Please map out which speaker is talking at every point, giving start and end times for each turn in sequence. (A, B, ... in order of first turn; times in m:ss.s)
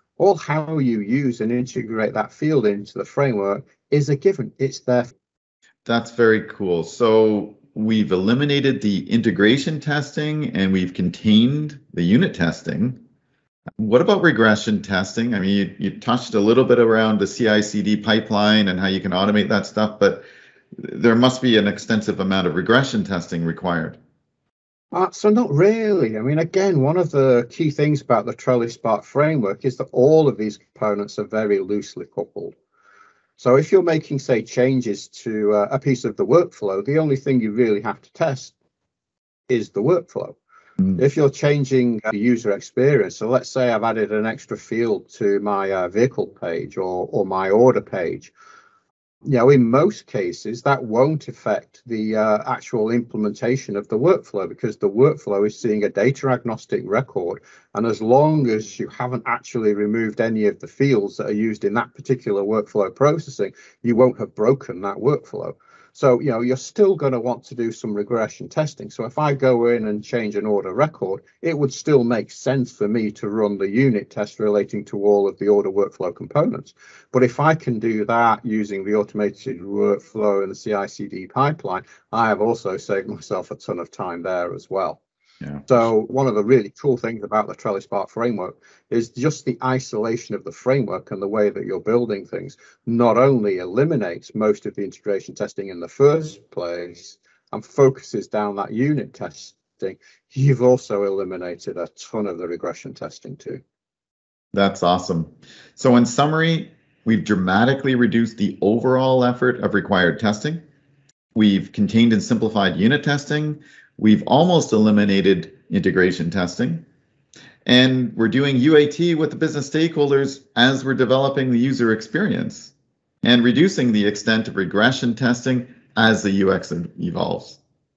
0:00.2-0:05.1 A
0:05.8-0:13.0 B
0:13.8-0:20.2 B
0:20.8-0:24.0 B
0:24.9-0:32.5 A
0:33.4-0:38.5 A
0:39.5-0:40.4 A
0:40.9-0:48.3 A
0:49.2-1:25.0 A
1:25.4-1:25.8 B
1:25.7-1:43.6 A
1:44.5-1:50.6 B
1:51.3-1:56.8 B
1:57.6-2:07.6 B